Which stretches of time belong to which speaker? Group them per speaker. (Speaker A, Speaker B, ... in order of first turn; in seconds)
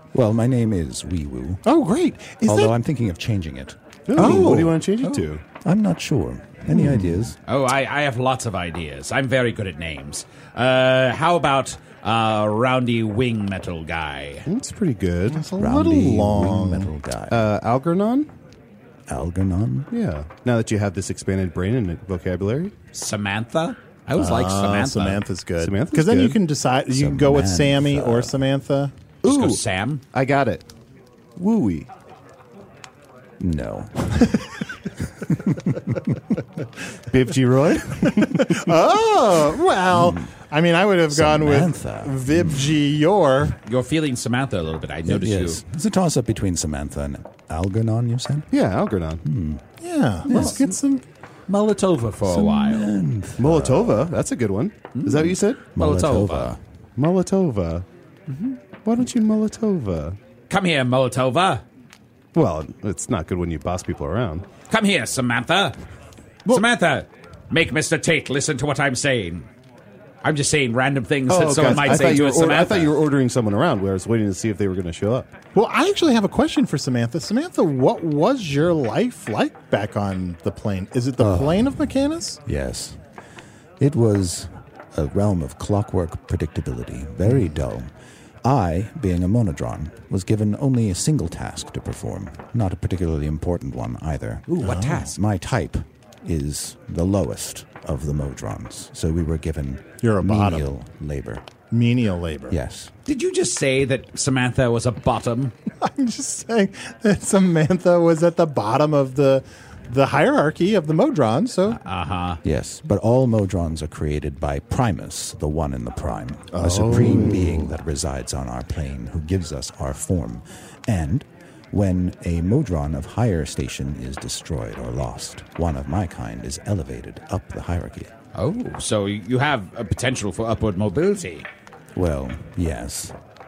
Speaker A: 0.1-1.6, 2.5-4.2, 5.6-7.4, 15.6-17.4, 19.1-19.9, 26.9-28.4, 33.4-34.4, 39.9-40.3, 41.1-42.8, 45.1-48.5, 49.2-49.6, 50.3-50.6, 52.3-54.1, 55.8-56.6, 81.2-81.8, 82.5-83.0, 83.8-87.9, 88.4-94.5, 95.1-101.4, 102.5-102.9, 112.4-128.1, 131.9-133.1
Speaker B: 1.6-2.8, 4.2-4.8, 15.3-16.9, 24.2-28.9, 38.1-43.6, 49.8-51.0, 75.5-82.4, 94.6-95.1, 100.0-100.7, 101.7-102.6, 105.8-111.8
Speaker C: 4.1-5.4, 14.5-15.4, 17.3-18.3, 19.9-22.7, 25.6-26.4, 29.2-29.6, 30.1-30.6, 31.4-31.9, 37.1-38.7, 48.5-49.2, 53.4-55.6, 57.0-57.9, 58.8-60.2, 62.3-64.5, 71.3-75.3, 116.5-117.7
Speaker D: 7.5-14.5, 22.9-25.2, 29.2-30.0, 43.7-45.6, 51.5-52.9, 55.0-56.5, 60.5-61.6, 64.7-65.8, 66.5-69.5, 70.2-73.0, 94.5-95.2, 103.1-105.5, 111.7-112.4, 128.3-131.5